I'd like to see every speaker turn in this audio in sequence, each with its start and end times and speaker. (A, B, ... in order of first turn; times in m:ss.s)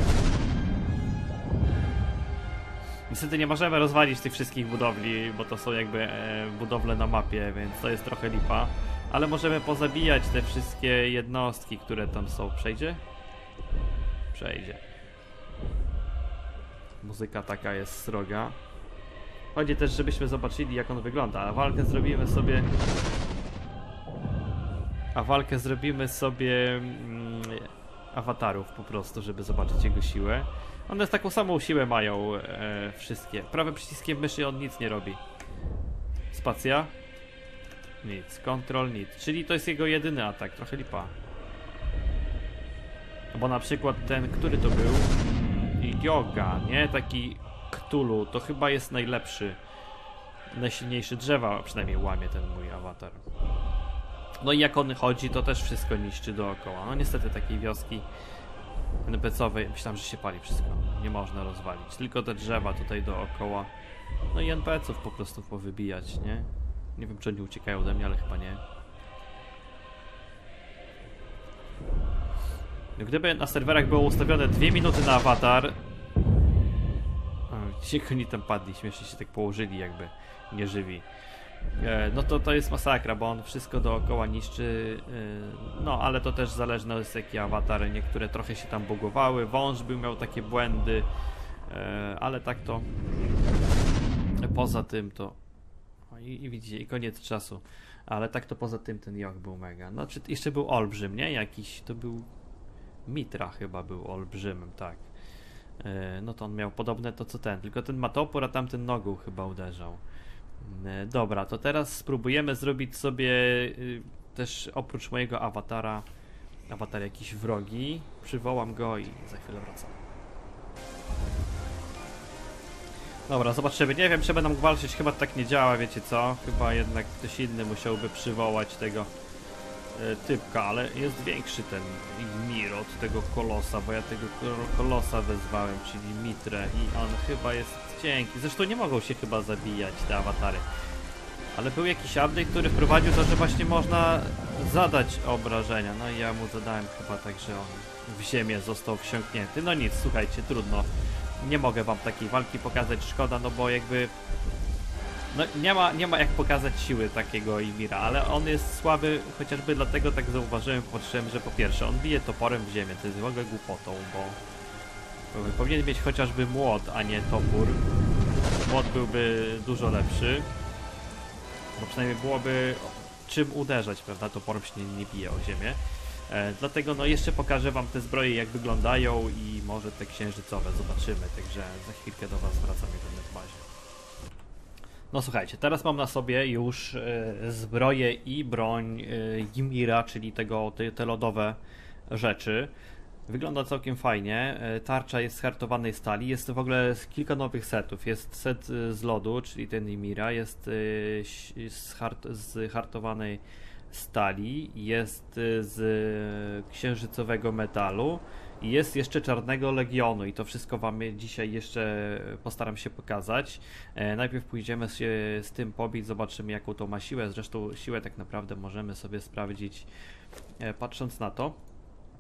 0:03.1-0:13.0 A
0:14.3-0:14.8 A
0:17.0-0:18.6 A
0:19.5-0:22.7 A
0:25.2-0:35.2 A
0:36.3-0:36.9 A
0:38.0-0:41.2 A
0:43.3-0:49.6 A
0:50.5-0:53.2 A
0:54.4-0:58.1 A
0:59.0-1:03.7 A
1:04.3-1:08.6 A
1:13.0-1:15.8 A
1:17.5-1:21.1 A
1:21.7-1:31.1 A
1:31.7-1:32.9 A
1:34.4-1:35.4 A
1:36.1-1:42.3 A
1:43.1-1:45.1 A
1:45.8-1:50.0 A
1:50.6-1:56.0 A
1:56.7-2:00.0 A
2:03.3-2:09.1 A
2:09.9-2:20.6 A
2:21.5-2:34.1 A
2:35.3-2:44.4 A
2:45.3-2:47.8 A
2:48.5-2:50.5 A
2:51.8-3:03.6 A
3:05.1-3:11.6 A
3:12.1-3:12.7 A
3:13.3-3:39.9 A
3:40.6-3:41.6 A